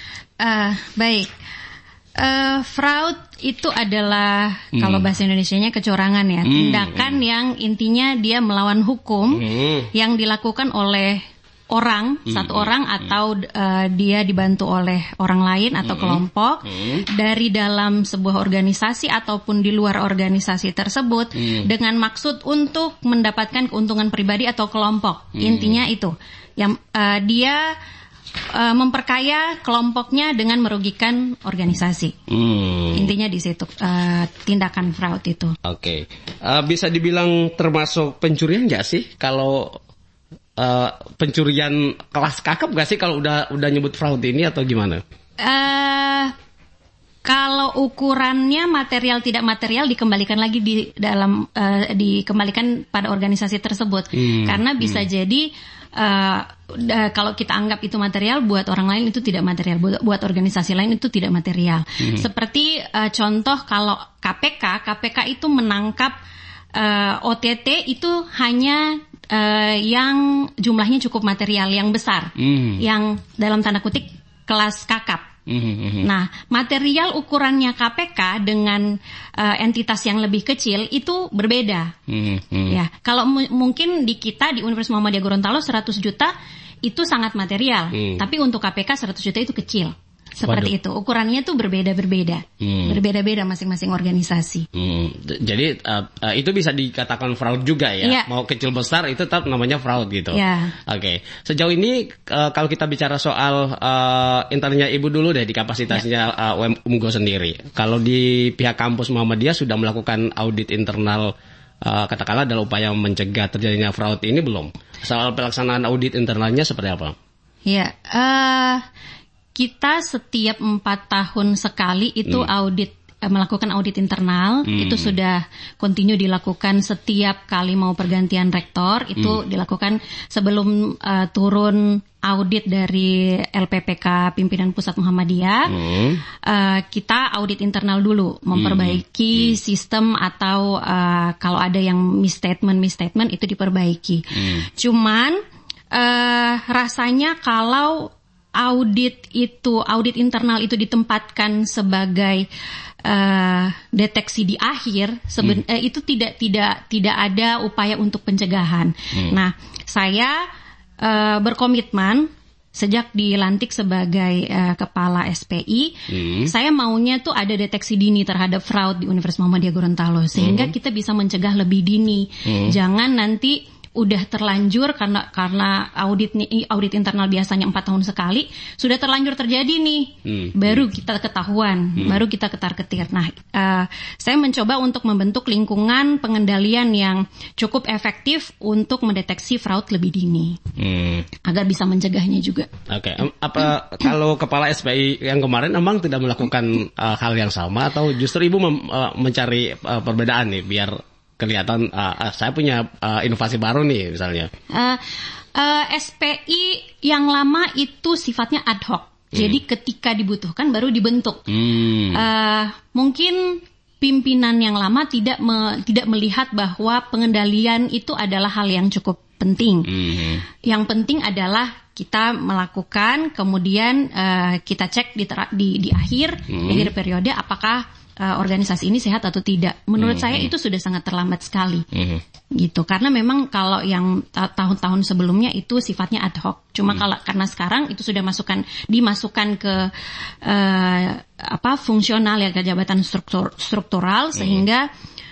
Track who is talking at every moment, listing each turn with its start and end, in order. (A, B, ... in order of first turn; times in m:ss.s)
0:00.4-0:01.3 A
0:02.2-0:27.7 A
0:04.8-0:05.0 B
0:06.4-0:07.2 B
0:09.3-0:09.9 B
0:12.3-0:13.1 B
0:15.8-0:17.0 B
0:21.4-0:21.7 B
0:25.4-0:25.8 B
0:28.5-0:32.1 A
0:32.3-0:33.1 B
0:32.9-0:35.6 A
0:35.6-0:39.8 B
0:40.6-0:45.0 B
0:45.4-0:46.3 A
0:47.2-1:06.2 A
0:54.2-0:55.0 B
1:02.0-1:02.2 B
1:06.8-1:15.3 A
1:12.4-1:12.8 B
1:15.5-1:16.1 B
1:16.0-1:21.9 A
1:22.1-1:22.8 B
1:22.7-1:26.3 A
1:26.8-1:34.7 A
1:27.9-1:28.2 B
1:30.4-1:30.7 B
1:32.6-1:33.0 B
1:34.7-1:51.3 B
1:38.0-1:38.3 A
1:40.3-1:40.8 A
1:51.8-1:57.2 B
1:57.7-1:58.8 A
1:59.6-2:15.7 A
2:04.7-2:05.1 B
2:15.7-2:16.2 B
2:16.4-2:25.4 A
2:18.5-2:19.6 B
2:24.4-2:24.6 B
2:25.9-2:32.5 A
2:33.0-2:40.4 A
2:41.0-3:10.6 A
2:46.1-2:46.5 B
2:50.4-2:50.7 B
2:52.5-2:52.8 B
3:00.3-3:00.8 B
3:10.8-3:11.3 B
3:11.4-3:12.7 A
3:12.9-3:24.5 B
3:24.7-3:25.0 A
3:25.6-3:31.5 A
3:31.5-3:32.2 B
3:32.1-3:39.9 A
3:39.9-3:40.4 B
3:40.6-3:51.8 A
3:46.5-3:46.9 B
3:50.0-3:50.5 B
3:51.9-3:52.2 B
3:52.6-3:59.9 A
4:00.4-4:04.9 A
4:04.4-4:04.6 B